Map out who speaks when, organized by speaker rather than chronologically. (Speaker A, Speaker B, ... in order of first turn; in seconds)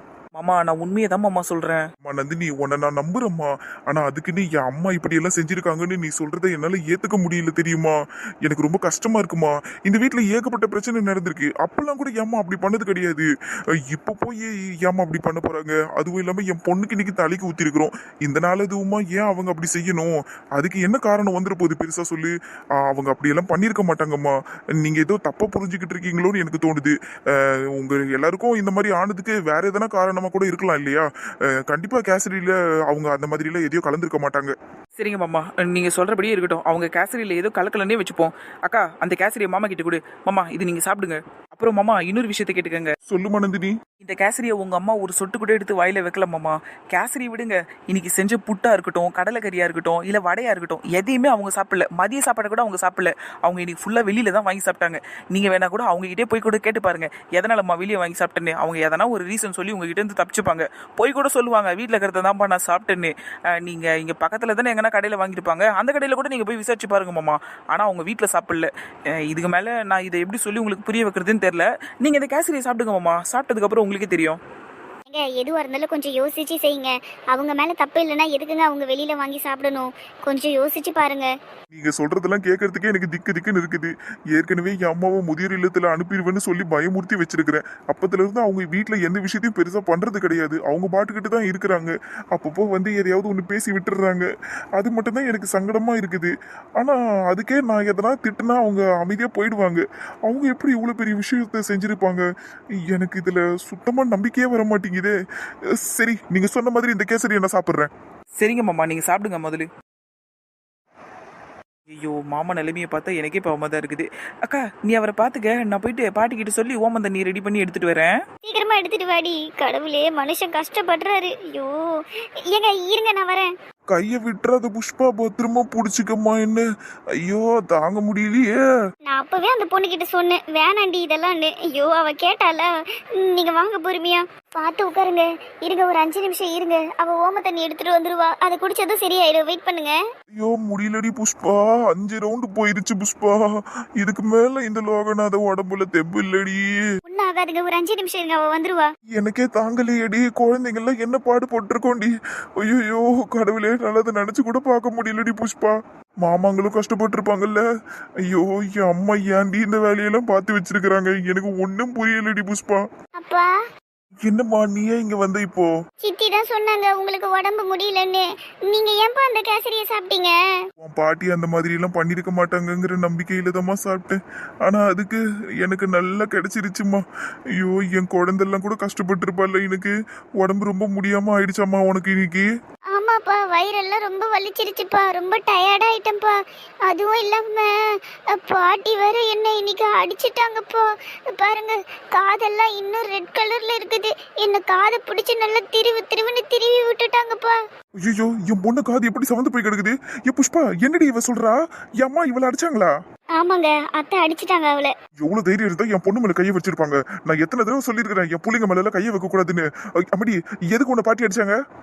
Speaker A: 0.3-1.9, 35.0-43.0, 44.0-74.4, 108.4-109.7, 111.9-118.2
Speaker B: 2.0-34.5, 43.1-43.8, 81.7-94.3, 94.8-102.2, 102.8-105.1, 105.7-107.9, 123.9-126.7, 127.2-128.6, 140.3-146.8, 149.2-157.6, 158.2-162.8, 164.2-165.7, 170.8-177.0, 177.6-182.5, 198.0-202.9, 205.2-211.6
Speaker C: 75.1-81.3, 118.4-123.5, 129.1-140.0, 147.1-148.9, 163.2-163.5, 166.0-170.6, 182.9-197.6, 203.4-204.9